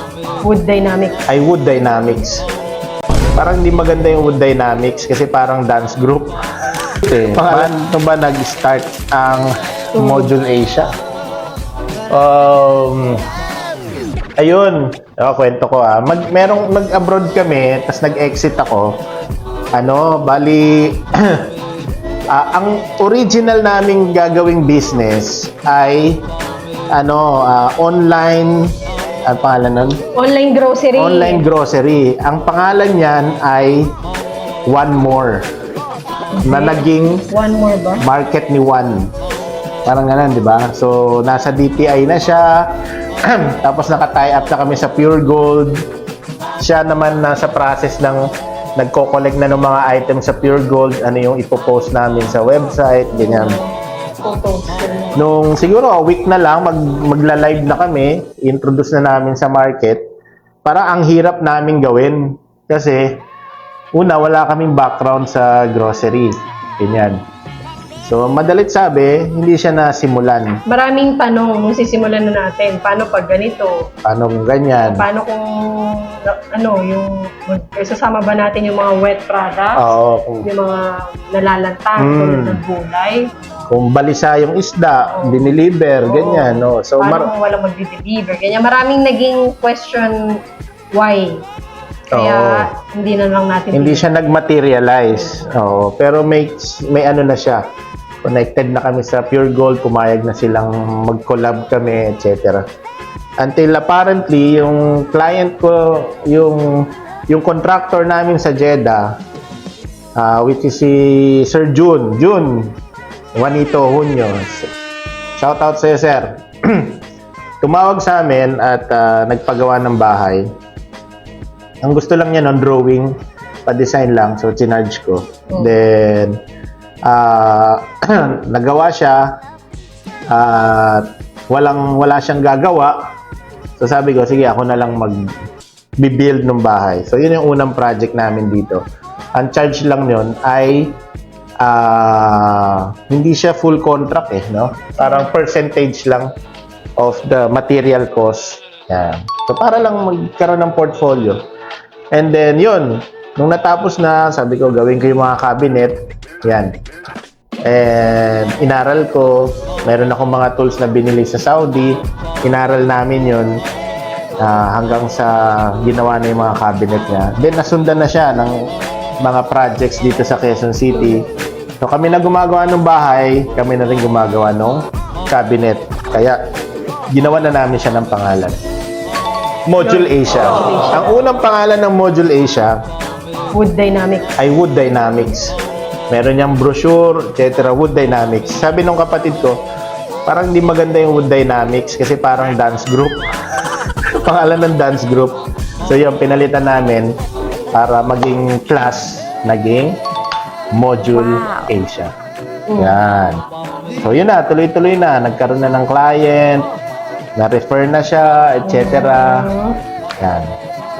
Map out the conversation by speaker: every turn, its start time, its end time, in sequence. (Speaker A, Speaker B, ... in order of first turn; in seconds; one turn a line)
Speaker A: 0.4-1.2
Speaker B: 1.3-2.4
Speaker B: 3.4-6.3
Speaker B: 7.0-10.9
Speaker A: 10.0-10.3
Speaker B: 12.1-13.2
Speaker B: 14.4-18.9
Speaker B: 19.8-21.4
Speaker B: 22.3-26.2
Speaker B: 26.9-28.7
Speaker B: 29.3-30.0
Speaker A: 30.2-31.4
Speaker B: 31.0-33.9
Speaker B: 34.7-35.5
Speaker A: 36.4-38.0
Speaker B: 36.5-37.3
Speaker B: 38.0-39.1
Speaker B: 39.9-42.5
Speaker B: 43.3-45.8
Speaker B: 46.6-48.2
Speaker B: 48.8-53.6
Speaker A: 53.2-53.7
Speaker A: 54.2-55.2
Speaker B: 55.2-60.0
Speaker B: 60.6-63.2
Speaker B: 64.0-67.2
Speaker B: 68.0-70.5
Speaker A: 70.7-73.7
Speaker B: 74.0-75.1
Speaker A: 74.9-79.8
Speaker B: 79.8-80.5
Speaker A: 80.5-83.2
Speaker B: 82.0-82.6
Speaker B: 83.7-87.3
Speaker A: 85.1-85.4
Speaker A: 86.1-90.2
Speaker A: 91.0-91.4
Speaker B: 92.1-92.6
Speaker A: 92.1-94.1
Speaker B: 93.7-97.6
Speaker B: 98.2-102.6
Speaker B: 103.4-109.1
Speaker B: 110.2-112.7
Speaker B: 113.3-114.7
Speaker B: 115.4-117.0
Speaker B: 117.6-120.5
Speaker B: 121.8-123.1
Speaker B: 123.7-126.4
Speaker B: 127.1-129.3
Speaker B: 130.3-132.9
Speaker B: 133.8-135.2
Speaker B: 136.0-138.8
Speaker B: 139.4-141.0
Speaker B: 141.6-146.3
Speaker A: 145.0-145.3
Speaker B: 147.0-151.4
Speaker B: 152.1-156.8
Speaker B: 157.7-163.5
Speaker B: 164.4-168.5
Speaker B: 169.2-171.2
Speaker A: 170.9-171.3
Speaker B: 171.8-176.4
Speaker B: 177.1-178.6
Speaker B: 179.7-182.7
Speaker A: 179.8-181.2
Speaker A: 183.5-184.4
Speaker B: 184.4-185.5
Speaker B: 186.1-189.6
Speaker B: 190.3-193.2
Speaker B: 194.2-197.1
Speaker B: 197.8-200.0
Speaker B: 200.8-202.1
Speaker A: 202.7-203.0
Speaker B: 202.8-203.4
Speaker B: 204.0-206.7
Speaker B: 207.4-209.5
Speaker A: 208.7-209.8
Speaker B: 210.2-210.5